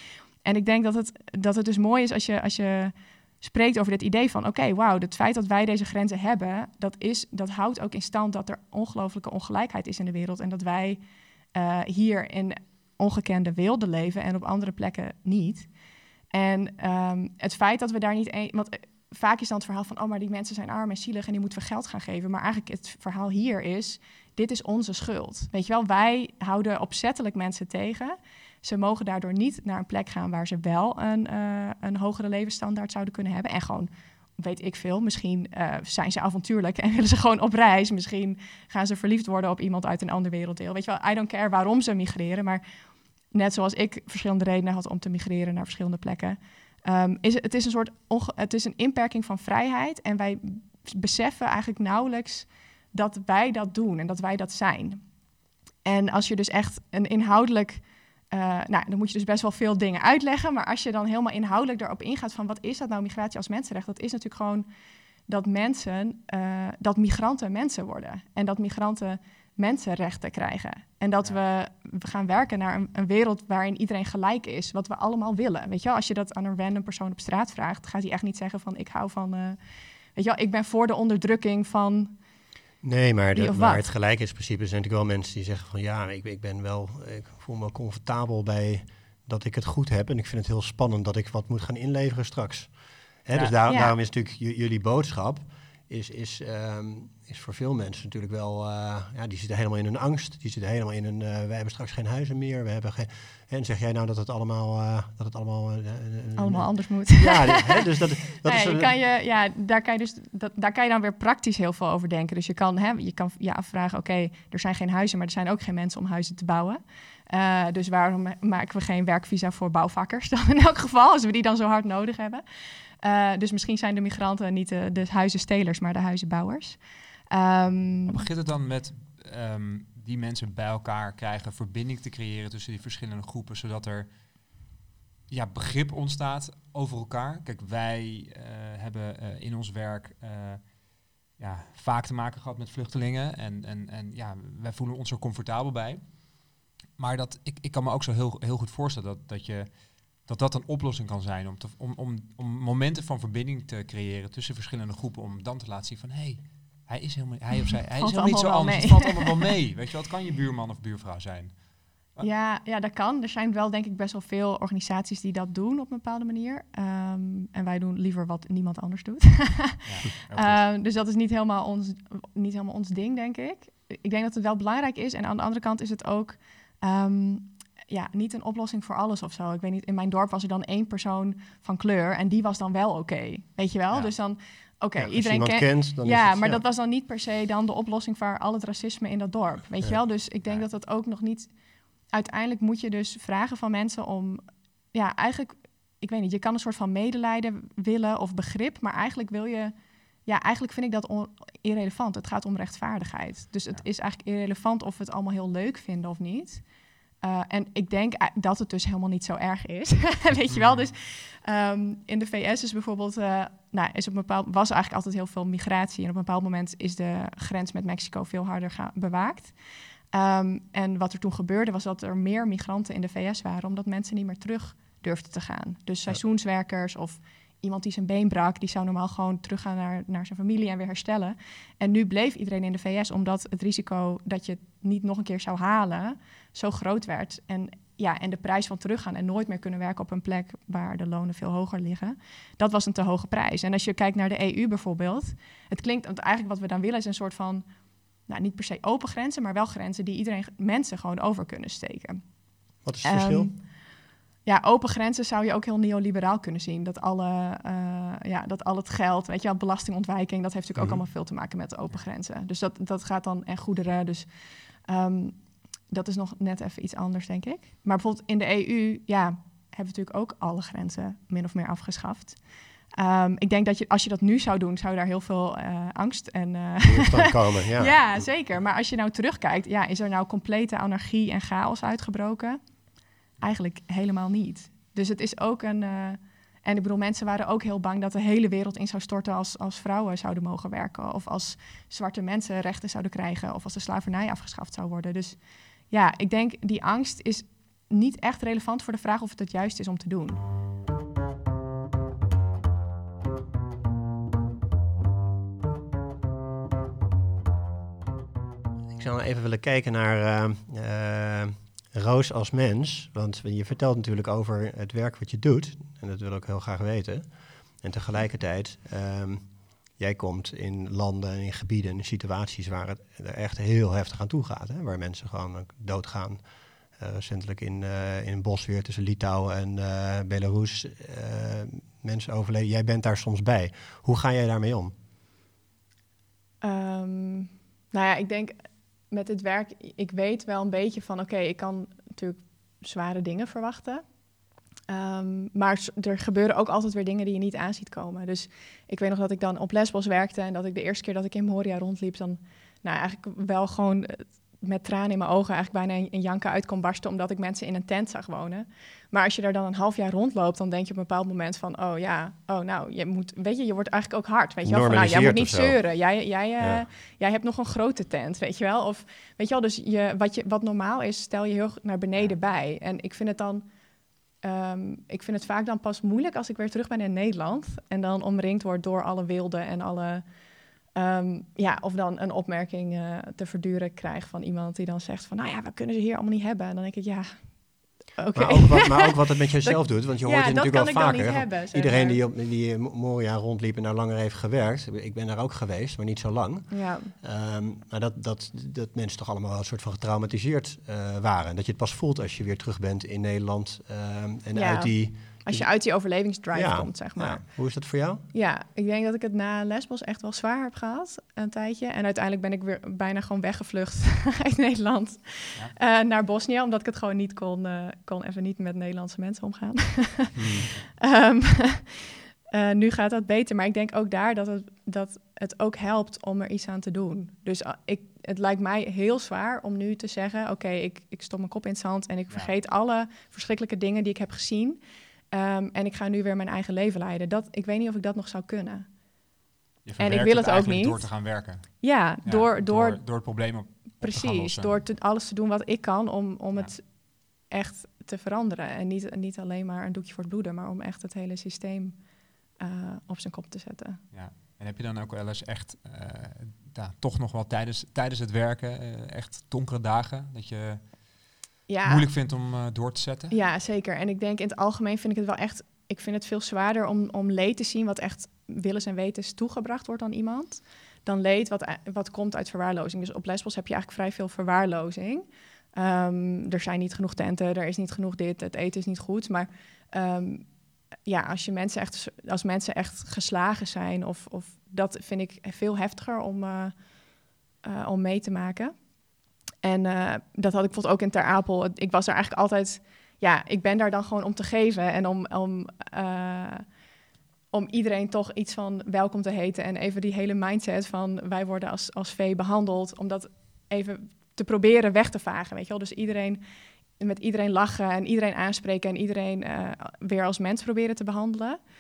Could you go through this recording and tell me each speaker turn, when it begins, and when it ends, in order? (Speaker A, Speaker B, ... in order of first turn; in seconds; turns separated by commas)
Speaker A: 0.4-11.0, Speaker A: 11.5-15.7, Speaker A: 16.3-42.6, Speaker A: 43.3-55.0, Speaker A: 55.9-64.7, Speaker A: 65.3-79.6, Speaker A: 80.1-82.2, Speaker B: 82.8-108.9, Speaker A: 83.3-83.9, Speaker C: 93.3-93.6, Speaker A: 93.7-93.9, Speaker A: 106.4-107.9, Speaker A: 108.4-122.4, Speaker A: 123.0-128.2, Speaker C: 128.1-134.1, Speaker C: 135.3-140.8, Speaker C: 141.3-146.3, Speaker C: 146.9-162.3, Speaker A: 157.9-159.4, Speaker A: 162.2-191.5, Speaker C: 169.8-170.7, Speaker B: 184.9-186.6, Speaker A: 192.1-194.4, Speaker A: 194.9-199.7, Speaker A: 200.2-206.6, Speaker A: 207.2-219.6, Speaker C: 210.5-210.9, Speaker A: 220.1-247.7, Speaker A: 248.2-252.3, Speaker B: 252.8-253.5, Speaker A: 253.0-253.7, Speaker A: 254.4-264.3, Speaker B: 260.8-261.0, Speaker A: 264.8-272.4, Speaker A: 272.9-282.6, Speaker B: 276.8-278.3, Speaker A: 283.4-300.4, Speaker B: 308.9-326.4, Speaker B: 326.9-334.9, Speaker A: 336.6-344.0, Speaker A: 344.9-373.6, Speaker B: 364.6-366.0, Speaker B: 366.6-366.9, Speaker A: 374.4-380.2, Speaker A: 380.9-387.6, Speaker A: 388.1-392.2, Speaker B: 388.4-405.9, Speaker A: 396.7-397.1, Speaker A: 404.5-434.8, Speaker B: 406.5-408.2, Speaker B: 420.4-420.7, Speaker A: 435.3-438.9, Speaker C: 439.9-444.8, Speaker A: 440.0-443.5, Speaker A: 444.0-454.0, Speaker C: 454.1-461.1, Speaker A: 461.7-462.1, Speaker C: 461.8-463.4, Speaker A: 463.3-480.5, Speaker A: 481.1-486.8, Speaker A: 487.6-488.8, Speaker A: 489.6-496.7, Speaker A: 497.5-506.4, Speaker A: 506.9-511.6